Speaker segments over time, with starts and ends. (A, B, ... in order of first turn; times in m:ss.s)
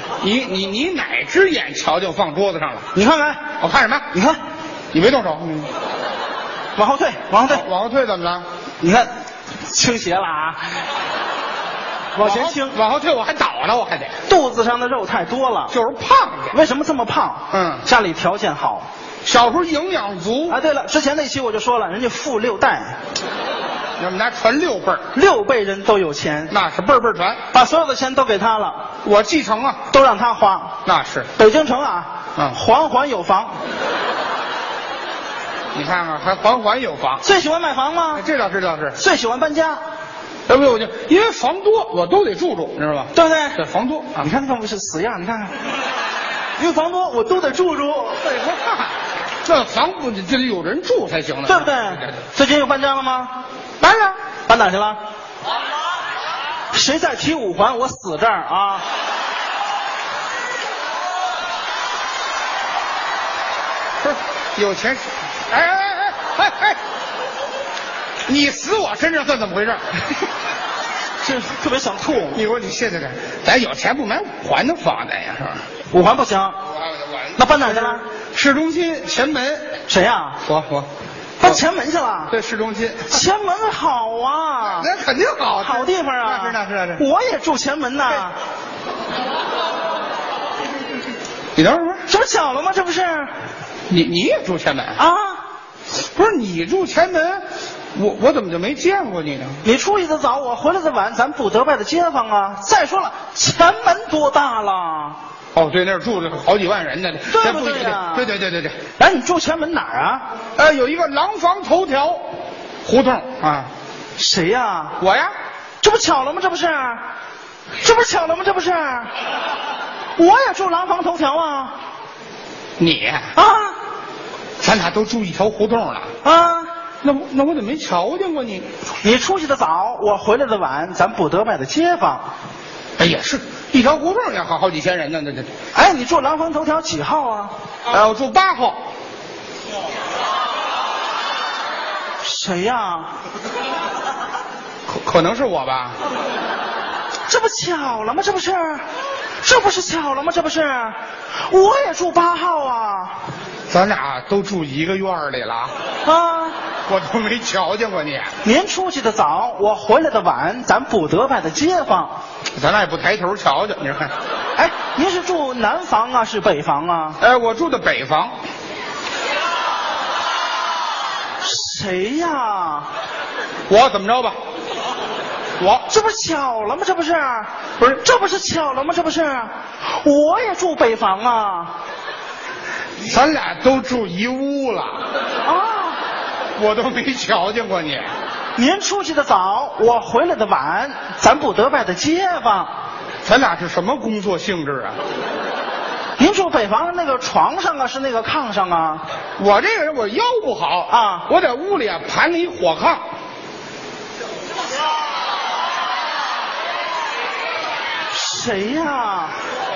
0:00.2-0:02.9 A
0:02.9-0:03.4 B
0:03.6-0:04.0 A
0:04.1-0:04.4 B
0:04.9-0:05.7 A
0:06.8-0:07.6 B
0:07.5-0:08.4 A
0:08.8-0:09.1 B
0:09.6-0:10.6 B
0:12.1-0:12.8 B
0:12.2-0:14.2 A
0:14.3-0:15.7 B
0:15.7-0:16.6 A
0:16.5-0:18.9 B
0:17.5-0:17.8 A
0:19.2-0:20.6 A
0:20.5-0:23.0 B
0:24.0-0:25.0 A
0:25.1-0:26.5 B
0:26.5-0:27.4 A
0:27.5-0:28.9 B
0:29.0-0:29.8 A
0:29.9-0:30.8 B
0:30.8-0:31.3 A
0:31.4-0:33.5 B
0:35.7-0:37.2 A
0:37.2-0:38.2 B
0:38.1-0:39.0 A
0:39.0-0:39.8 B
0:40.5-0:44.3 A
0:43.1-0:43.6 B
0:44.2-0:45.5 B
0:46.6-0:48.2 B
0:48.2-0:48.9 A
0:49.4-0:52.1 A
0:51.4-0:53.4 B
0:53.8-0:54.2 A
0:54.5-0:55.0 B
0:56.7-0:58.8 B
1:04.0-1:06.8 A
1:08.3-1:09.8 A
1:11.2-1:12.4 B
1:12.3-1:15.6 A
1:15.9-1:16.6 B
1:16.9-1:19.8 A
1:17.4-1:18.0 B
1:19.9-1:20.4 B
1:20.4-1:20.9 A
1:21.4-1:22.3 B
1:22.3-1:23.2 A
1:23.1-1:24.9 B
1:24.7-1:27.0 A
1:25.6-1:28.4 B
1:31.6-1:32.0 A
1:32.1-1:33.3 B
1:33.9-1:35.0 A
1:35.0-1:35.4 B
1:36.0-1:37.4 A
1:37.9-1:39.6 A
1:39.6-1:45.2 B
1:45.5-1:48.8 A
1:47.3-1:48.2 B
1:49.0-1:50.3 B
1:50.6-1:52.2 A
1:52.8-1:53.7 A
1:54.2-1:55.0 B
1:55.0-1:55.3 A
1:55.8-1:57.0 B
1:57.8-1:59.1 B
2:00.2-2:01.8 B
2:02.8-2:03.3 A
2:03.4-2:03.8 B
2:04.6-2:06.1 A
2:06.2-2:06.7 B
2:07.0-2:08.7 A
2:09.0-2:12.3 B
2:13.0-2:15.5 A
2:15.7-2:17.5 B
2:17.9-2:18.8 A
2:22.2-2:23.1 B
2:24.9-2:26.0 A
2:27.3-2:28.8 B
2:29.4-2:33.2 B
2:33.7-2:35.7 A
2:36.0-2:36.6 B
2:36.9-2:38.3 A
2:38.4-2:42.2 B
2:42.6-2:44.1 A
2:44.6-2:47.2 B
2:47.2-2:48.3 A
2:51.4-2:52.9 B
2:53.7-2:54.4 A
2:55.6-2:55.9 A
2:55.9-3:01.8 B
3:03.0-3:05.0 A
3:05.4-3:06.0 B
3:06.6-3:08.1 A
3:08.6-3:12.7 B
3:13.2-3:15.0 A
3:16.2-3:19.0 B
3:19.4-3:23.0 A
3:20.9-3:21.3 B
3:28.1-3:29.3 B